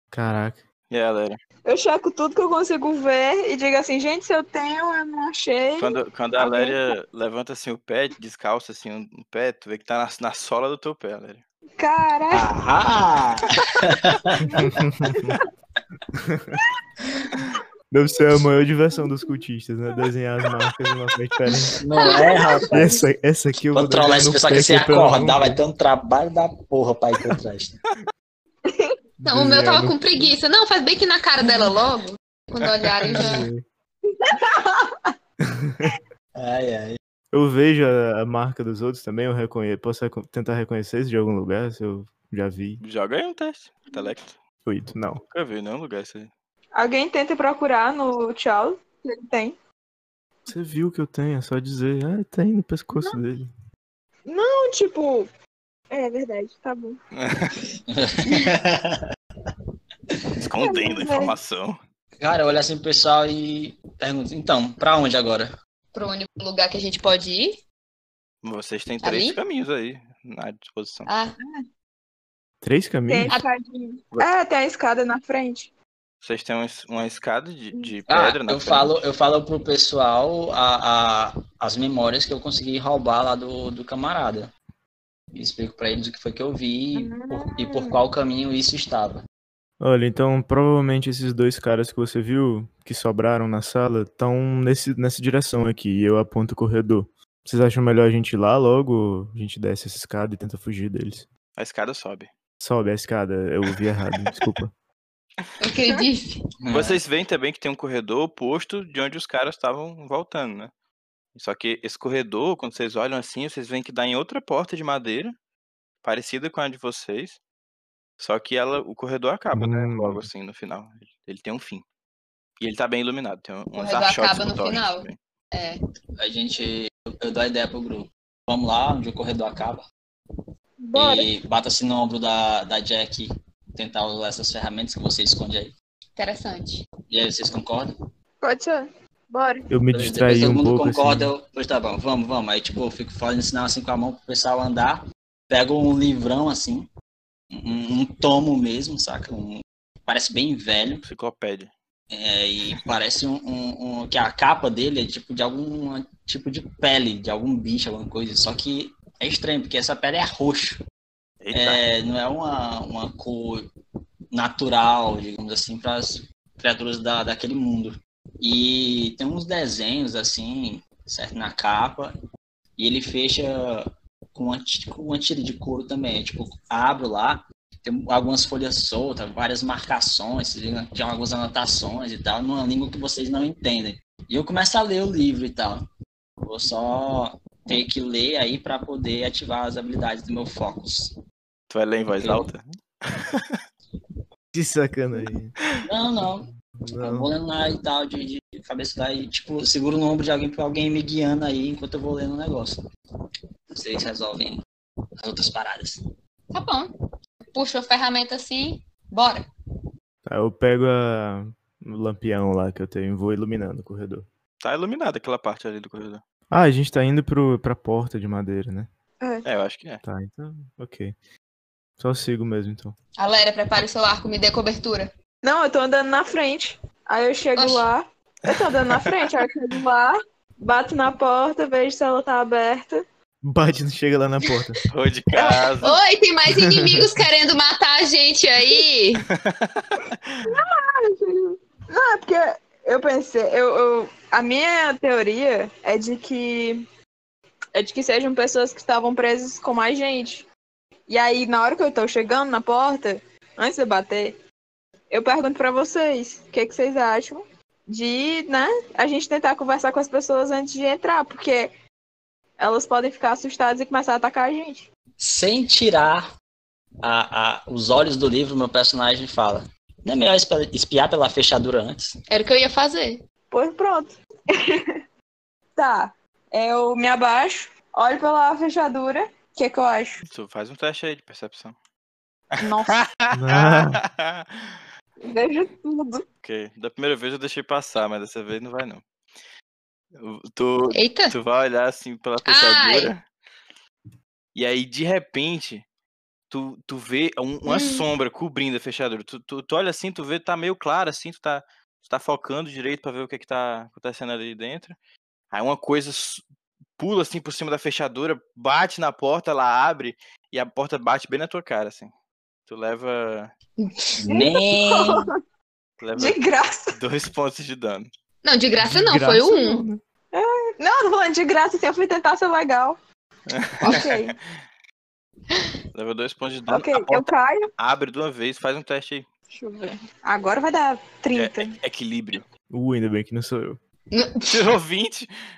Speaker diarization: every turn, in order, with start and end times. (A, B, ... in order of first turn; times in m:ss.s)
0:00.1-0:00.6 A
0:00.9-0:01.4 B
0:01.6-0:06.9 C
0:05.8-0:11.4 B
0:11.8-0:12.5 C
0:12.3-0:14.5 D
0:14.5-0:15.4 C
0:14.6-0:15.4 A
0:16.1-0:16.6 A
0:17.9-0:21.8 A
0:19.0-0:19.4 C
0:21.5-0:23.0 C
0:21.8-0:22.9 D
0:22.7-0:25.6 A
0:23.7-0:27.8 D
0:28.6-0:28.9 C
0:29.2-0:30.3 A
0:29.2-0:33.5 E
0:32.8-0:33.2 B
0:33.1-0:33.6 A
0:34.0-0:35.1 C
0:35.5-0:36.0 A
0:36.4-0:37.0 D
0:37.3-0:42.8 A
0:42.8-0:44.4 B
0:44.6-0:45.2 A
0:45.2-0:46.3 B
0:46.7-0:49.6 C
0:50.5-0:53.5 A
0:54.3-0:55.3 C
0:55.9-0:57.0 C
0:57.1-0:57.6 B
0:57.9-0:59.5 D
1:00.4-1:01.8 B
1:00.6-1:01.3 C
1:02.2-1:05.5 D
1:05.9-1:07.6 E
1:08.4-1:11.1 B
1:09.0-1:09.4 E
1:11.0-1:11.4 E
1:12.6-1:13.3 A
1:13.1-1:15.7 C
1:16.2-1:19.0 B
1:18.1-1:24.5 D
1:25.3-1:29.2 D
1:26.9-1:28.0 C
1:29.8-1:41.3 A
1:41.6-1:42.3 B
1:42.6-1:44.7 A
1:44.1-1:44.4 B
1:45.6-1:46.4 E
1:46.6-1:47.0 D
1:46.7-1:50.7 B
1:51.3-1:55.3 B
1:56.0-1:57.4 B
1:58.2-2:01.8 B
1:59.5-2:00.2 A
2:02.6-2:05.2 B
2:03.7-2:05.8 E
2:06.2-2:09.8 D
2:10.8-2:11.3 C
2:10.9-2:15.7 D
2:16.2-2:16.8 E
2:17.1-2:17.9 D
2:18.4-2:19.7 C
2:19.7-2:21.3 A
2:19.9-2:26.9 D
2:27.5-2:31.0 D
2:31.0-2:31.7 B
2:32.1-2:40.8 D
2:41.4-2:41.8 B
2:41.5-2:43.7 D
2:44.3-2:52.1 D
2:52.8-3:05.8 D
3:06.4-3:11.1 D
3:11.7-3:13.6 B
3:12.1-3:12.5 D
3:14.5-3:15.6 A
3:15.8-3:22.8 D
3:16.8-3:17.3 A
3:23.7-3:24.6 D
3:25.2-3:26.0 D
3:26.5-3:26.9 E
3:27.5-3:29.5 E
3:30.2-3:34.3 A
3:34.6-3:36.2 B
3:36.5-3:38.9 A
3:39.2-3:39.4 C
3:39.4-3:40.0 B
3:40.0-3:41.1 A
3:42.0-3:43.0 A
3:43.2-3:45.1 E
3:45.4-3:53.0 C
3:47.5-3:47.9 E
3:48.5-3:49.2 B
3:53.4-3:54.8 A
3:54.9-3:56.0 B
3:55.8-3:59.2 E
3:56.5-3:57.1 A
3:59.2-4:00.5 B
4:00.5-4:06.8 C
4:07.7-4:10.5 C
4:11.1-4:14.4 C
4:15.1-4:21.7 C
4:22.6-4:24.8 C
4:25.2-4:26.2 D
4:27.0-4:32.1 D
4:32.3-4:33.2 E
4:33.5-4:34.9 C
4:35.8-4:40.2 C
4:40.2-4:41.8 B
4:42.5-4:44.8 B
4:42.6-4:43.1 C
4:43.3-4:44.0 A
4:45.2-4:46.2 C
4:46.4-4:49.0 B
4:50.1-4:53.2 B
4:50.9-4:51.3 E
4:52.4-4:53.1 E
4:54.5-4:55.8 B
4:56.5-5:04.9 B
4:57.6-4:58.1 E
5:05.5-5:06.4 B
5:07.0-5:12.1 B
5:12.7-5:13.5 B
5:13.8-5:14.1 E
5:14.2-5:15.3 D
5:14.3-5:15.3 C
5:16.0-5:16.4 B
5:16.1-5:17.0 C
5:16.9-5:18.1 B
5:18.4-5:19.8 E
5:18.8-5:20.0 A
5:20.3-5:23.0 C
5:23.5-5:24.3 B
5:23.8-5:24.4 C
5:25.5-5:25.7 E
5:25.9-5:29.2 B
5:26.7-5:27.7 C
5:29.5-5:31.8 C
5:31.3-5:32.4 B
5:32.7-5:33.8 A
5:34.1-5:34.7 E
5:34.5-5:35.3 B